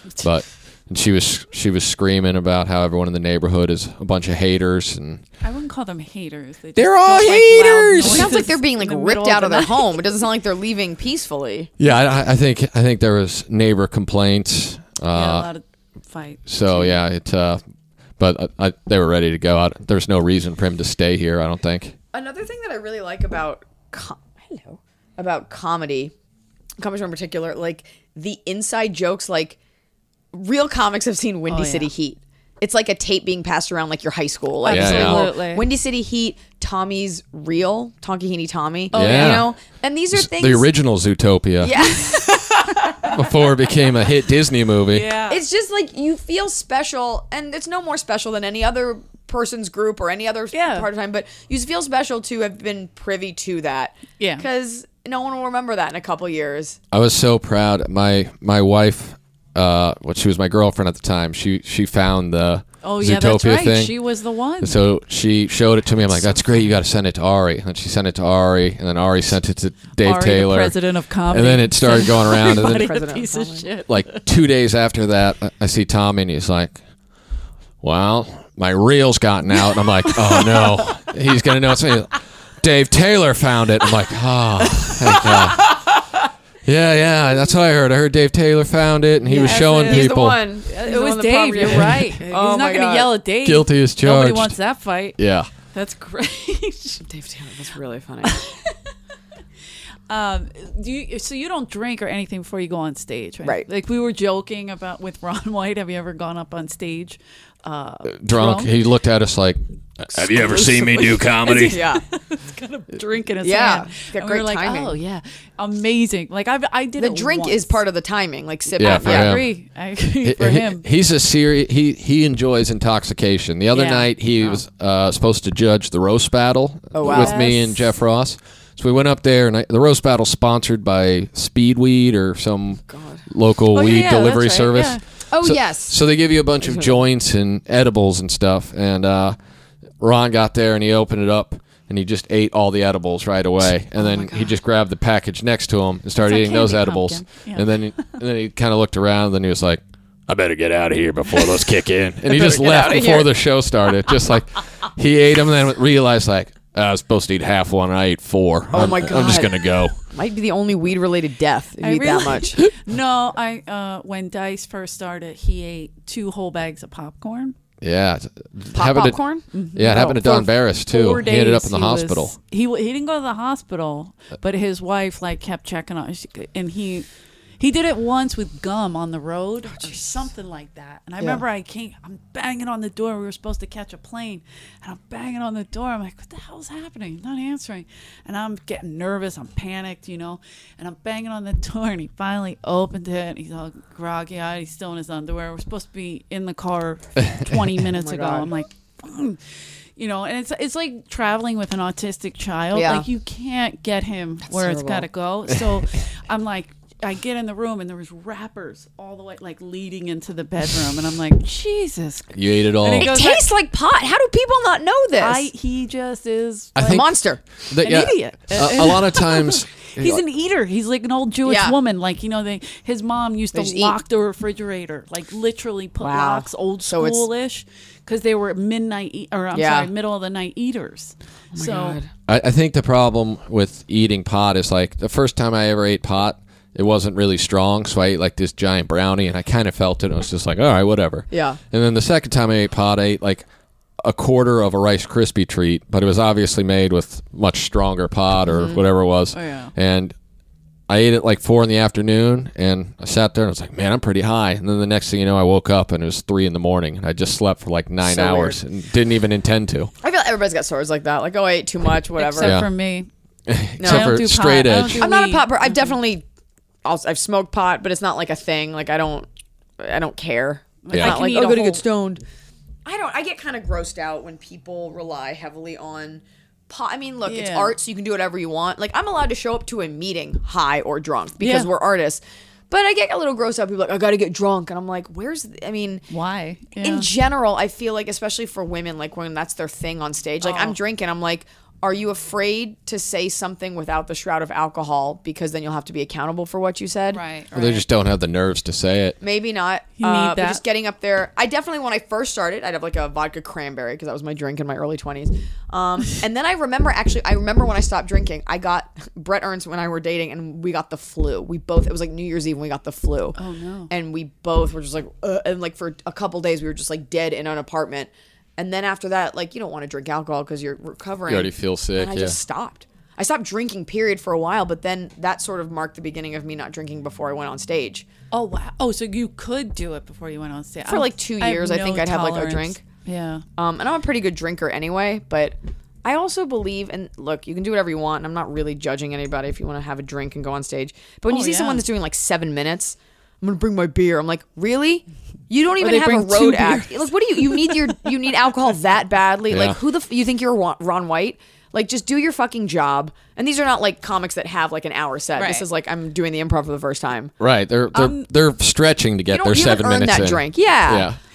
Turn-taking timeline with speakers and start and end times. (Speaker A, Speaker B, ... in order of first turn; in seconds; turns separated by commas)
Speaker A: 0.2-5.2, Speaker B: 5.4-10.0, Speaker A: 6.8-8.4, Speaker C: 8.0-11.7, Speaker A: 11.8-15.5, Speaker B: 15.1-17.0, Speaker A: 16.5-17.6, Speaker A: 18.2-21.9, Speaker C: 22.1-26.1, Speaker C: 26.8-29.6, Speaker C: 30.3-40.7, Speaker B: 31.5-31.9, Speaker B: 34.6-35.7, Speaker A: 34.7-35.3, Speaker B: 38.9-39.4, Speaker A: 38.9-39.5, Speaker A: 40.1-41.8, Speaker C: 41.6-43.2, Speaker B: 41.8-43.1, Speaker A: 43.0-45.1, Speaker B: 44.9-45.4, Speaker C: 45.3-56.8, Speaker B: 50.5-50.9, Speaker B: 54.2-54.5, Speaker A: 56.9-64.0, Speaker B: 62.8-64.8, Speaker A: 64.6-70.8, Speaker B: 70.0-74.2, Speaker A: 71.3-72.9, Speaker C: 72.4-73.7, Speaker A: 73.9-76.8, Speaker A: 77.8-85.7, Speaker B: 80.0-81.0, Speaker B: 84.8-85.6, Speaker C: 85.3-85.8, Speaker A: 86.6-90.4, Speaker B: 89.2-90.1, Speaker C: 89.3-93.1, Speaker B: 90.7-97.0, Speaker A: 93.4-94.5, Speaker A: 95.2-95.5, Speaker C: 97.0-98.4, Speaker B: 98.2-98.8, Speaker B: 100.1-108.7, Speaker A: 108.0-111.8, Speaker B: 110.3-117.8, Speaker C: 110.4-110.8, Speaker C: 111.5-112.0, Speaker C: 113.4-115.0, Speaker C: 117.0-119.4, Speaker B: 118.7-120.8, Speaker A: 118.8-119.5, Speaker A: 120.2-139.3, Speaker B: 123.7-124.6, Speaker C: 126.9-127.4, Speaker B: 127.0-127.8, Speaker C: 132.9-133.2, Speaker B: 133.7-135.0, Speaker C: 135.3-136.0, Speaker C: 136.6-137.0, Speaker A: 140.0-160.0, Speaker C: 144.0-144.5, Speaker B: 146.2-148.2, Speaker C: 152.3-153.3, Speaker C: 158.7-162.7, Speaker B: 161.8-167.6, Speaker A: 167.8-169.2, Speaker C: 168.7-170.3, Speaker B: 169.5-177.1, Speaker A: 169.7-172.3, Speaker B: 177.6-199.4, Speaker C: 179.7-180.1, Speaker C: 198.0-198.5, Speaker B: 200.0-213.4, Speaker C: 202.7-203.1, Speaker C: 204.5-205.1, Speaker A: 212.3-213.1, Speaker C: 213.0-215.5, Speaker B: 215.2-217.0, Speaker A: 216.8-217.1, Speaker C: 216.8-217.4, Speaker A: 217.7-220.2, Speaker B: 217.8-232.0, Speaker C: 221.4-221.8, Speaker C: 223.5-223.9, Speaker C: 226.0-227.2, Speaker C: 229.5-229.9, Speaker C: 231.5-232.1, Speaker A: 232.3-243.4, Speaker C: 241.3-241.6, Speaker A: 244.0-250.1, Speaker C: 248.5-248.8, Speaker B: 249.3-249.7, Speaker A: 250.9-259.9, Speaker C: 258.0-258.6, Speaker C: 260.0-262.6, Speaker B: 262.2-263.1, Speaker A: 262.4-262.7, Speaker A: 263.5-265.1, Speaker C: 263.8-264.2, Speaker B: 263.8-265.9, Speaker C: 264.9-266.2, Speaker C: 266.8-269.3, Speaker C: 269.8-272.2, Speaker B: 270.8-271.8, Speaker A: 270.9-271.2, Speaker C: 272.8-286.1, Speaker B: 277.2-277.7, Speaker B: 281.4-281.7, Speaker B: 286.1-287.1, Speaker C: 286.8-297.2, Speaker B: 290.4-290.8, Speaker B: 297.1-297.8, Speaker A: 297.5-299.2, Speaker C: 299.2-313.4, Speaker B: 300.0-300.6, Speaker B: 313.4-313.9, Speaker C: 313.9-328.1, Speaker A: 321.3-322.4, Speaker B: 328.3-333.4, Speaker C: 330.9-332.8, Speaker C: 333.6-357.3, Speaker B: 341.3-341.8, Speaker B: 345.8-347.7, Speaker A: 349.5-349.8, Speaker B: 355.4-355.6, Speaker A: 357.4-361.2, Speaker B: 357.9-358.2, Speaker C: 359.3-361.1